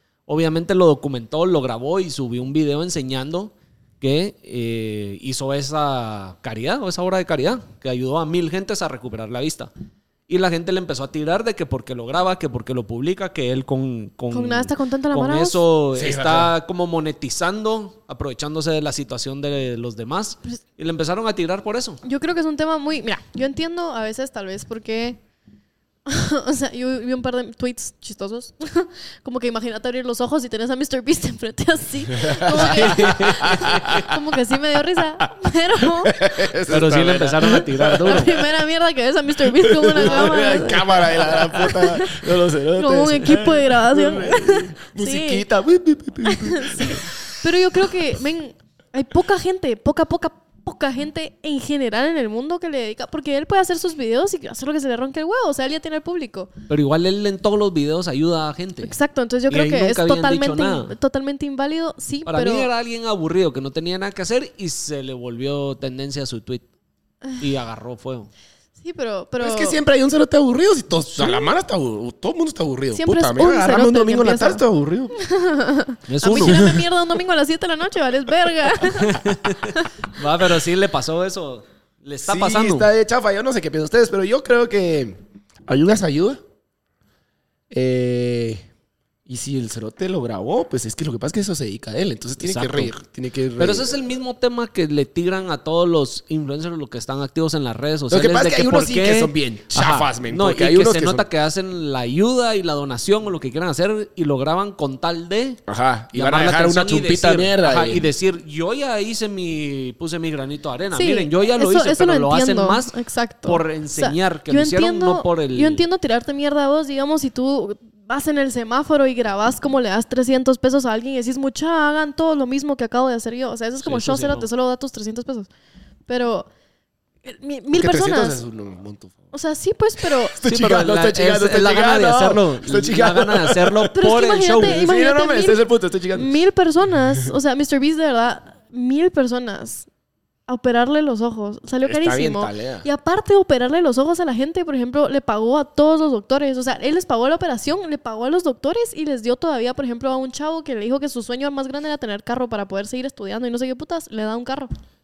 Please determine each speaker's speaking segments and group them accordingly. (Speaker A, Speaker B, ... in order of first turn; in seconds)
Speaker A: 0.3-9.7, 10.3-22.0, 32.5-34.0, 36.7-38.4, 56.7-58.9, 59.5-60.9, 62.2-66.7, 67.4-68.3, 76.1-76.7, 78.9-82.9, 92.4-92.9, 93.6-105.6, 106.1-112.9, 113.5-115.8, 123.8-124.5, 130.4-134.8
Speaker B: 14.3-15.6, 22.0-25.2, 26.1-36.2, 38.0-45.4, 46.2-56.5, 58.8-62.7, 68.8-69.8, 71.2-71.5, 72.9-74.6, 75.1-79.9, 110.9-125.5, 126.1-126.5, 127.2-128.4, 129.3-130.3, 133.9-135.6, 136.1-139.8, 140.5-154.7
Speaker C: 15.9-16.5, 32.1-34.2, 36.0-38.4, 39.6-47.1, 69.4-75.1, 76.3-76.8, 82.2-86.4, 87.7-88.7, 89.2-94.0, 98.1-101.3, 105.7-108.0, 127.7-129.2, 130.0-133.9, 134.5-136.4, 141.8-142.8